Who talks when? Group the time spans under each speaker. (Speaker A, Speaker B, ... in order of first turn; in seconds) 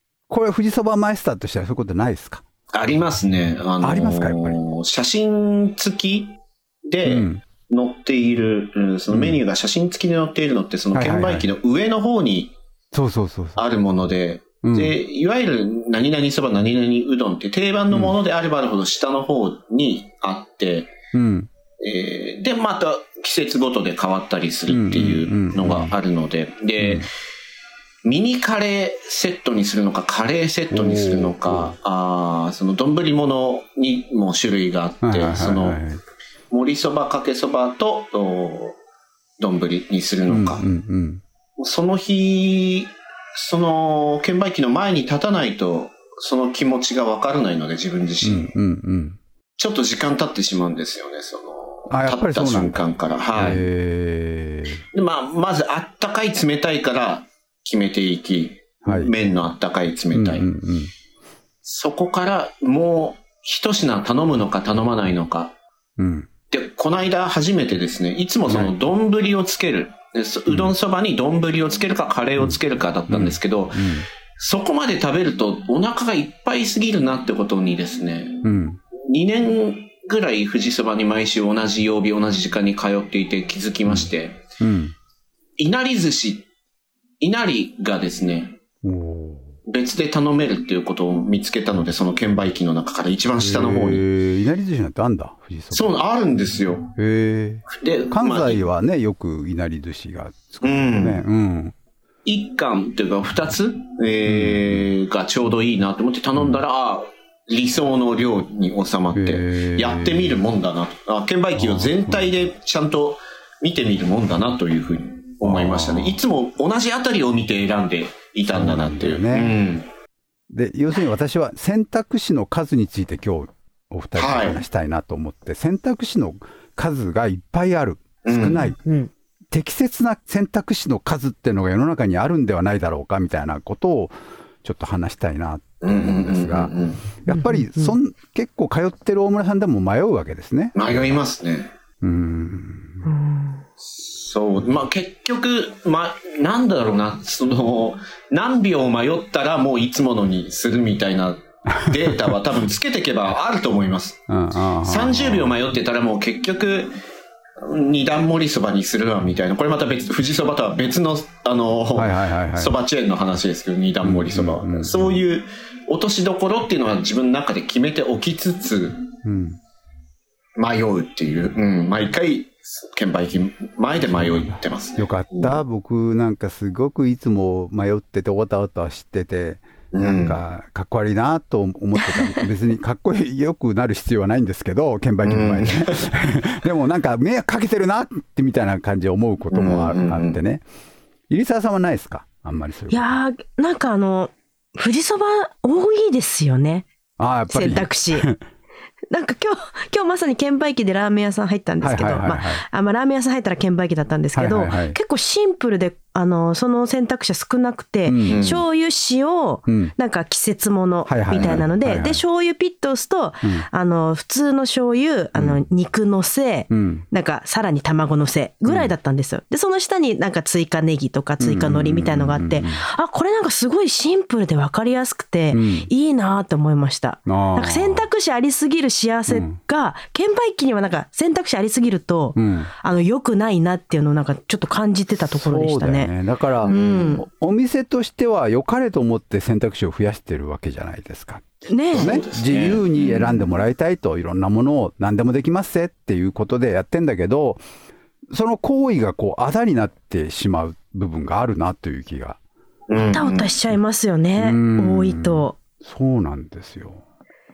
Speaker A: 0.3-2.4, 3.8-4.6, 7.0-7.4, 9.1-9.4, 10.9-11.5, 12.9-13.6, 14.6-14.9, 21.1-21.5, 24.7-25.9, 26.8-27.1, 30.7-31.7, 35.0-36.0, 40.3-41.2, 48.2-49.2, 51.9-52.8, 53.3-54.8, 58.8-59.1, 60.1-60.9, 66.0-66.3, 68.5-68.7, 70.5-70.7, 72.4-74.0, 78.4-78.8, 84.6-84.9, 88.8-89.5, 93.4-96.0, 97.0-101.7, 104.3-104.9, 109.1-110.4, 111.6-112.5, 115.4-116.2, 118.5-119.5, 120.5-128.8, 129.5-136.7, 137.2-141.2, 142.0-143.0, 154.3-155.5, 161.9-162.7, 164.0-165.2, 169.2-169.6, 174.0-190.6, 191.3-193.2, 197.2-198.4, 201.8-202.6, 204.3-205.0, 208.0-208.4, 209.7-209.9, 211.1-212.2, 215.3-215.6, 216.7-217.1, 218.7-218.9, 221.4-222.8, 225.5-225.9, 227.3-228.1, 229.3-229.6, 232.3-232.7, 235.2-247.6, 248.3-252.4, 254.4-257.0
Speaker B: 2.7-12.5, 13.6-20.9, 21.8-27.1, 28.0-35.8, 36.5-38.8, 39.4-40.6, 41.6-48.5, 49.6-53.6, 54.9-60.5, 61.6-65.5, 66.5-78.5, 79.0-84.4, 85.6-86.5, 87.2-88.6, 89.7-94.0, 95.7-96.9, 97.7-98.6, 100.6-101.2, 102.2-119.9, 124.2-124.6, 128.2-128.7, 135.8-137.0, 140.8-141.7, 143.9-154.2, 154.8-156.9, 157.6-169.0, 170.6-175.6, 179.9-180.4, 185.2-186.1, 189.5-190.4, 208.3-208.6, 211.3-211.6, 236.6-237.2, 241.9-243.5, 252.9-253.5
Speaker C: 128.8-129.1, 137.3-137.9, 143.0-143.6, 192.9-196.8, 197.5-198.3, 199.1-236.1, 236.7-237.2, 241.7-242.2, 253.1-255.6